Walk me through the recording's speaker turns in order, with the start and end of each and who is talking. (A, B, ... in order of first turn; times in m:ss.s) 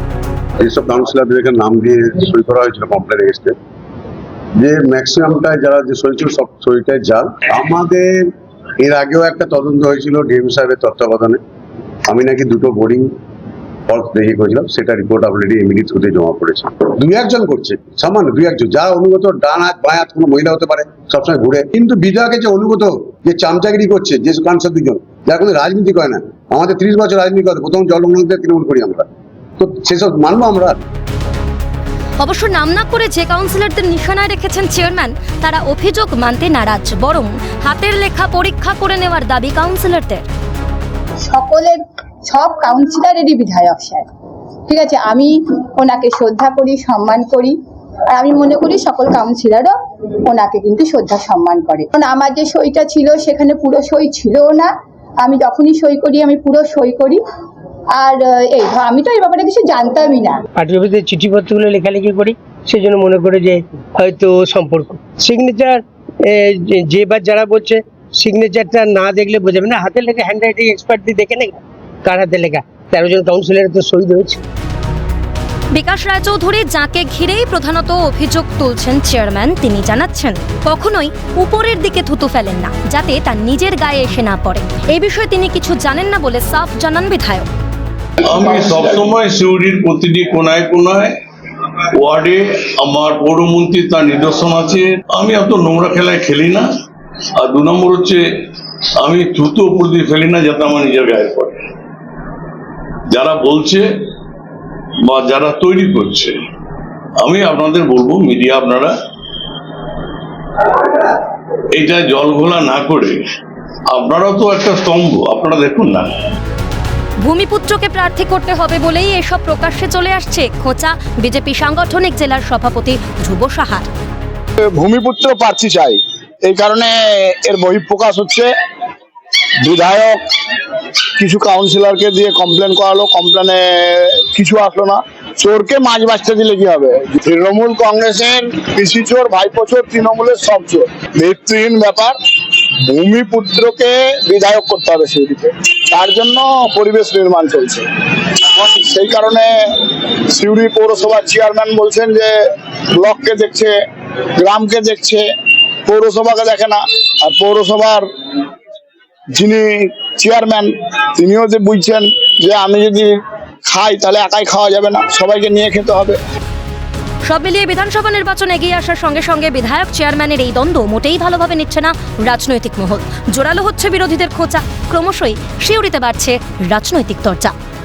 0:00.6-0:03.6 A
0:04.6-0:11.4 A
0:12.1-0:13.1 A
0:13.9-0:29.1 A
0:29.6-0:30.8 A
0:32.2-0:40.2 B
0:41.3-0:44.1 C
0:44.7-0:47.6 C
0:48.1-0:57.2 C
0:57.9-1:00.4 C
1:00.6-1:14.4 D
1:15.7-1:27.5 B
1:28.2-1:31.1 E
1:32.0-1:36.7 E
1:37.4-1:38.2 E
1:39.0-1:41.6 E
1:43.1-1:43.8 E
1:45.1-1:46.4 E
1:47.2-1:48.9 E
1:51.7-1:53.2 E
1:53.9-1:56.1 E
1:57.2-2:03.9 B
2:04.6-2:08.5 F
2:09.6-2:10.2 F
2:11.2-2:22.2 F
2:22.9-2:32.4 F
2:32.9-2:33.8 F
2:34.4-2:35.3 F
2:35.9-2:38.1 F
2:39.4-2:46.2 F
2:47.2-2:57.5 B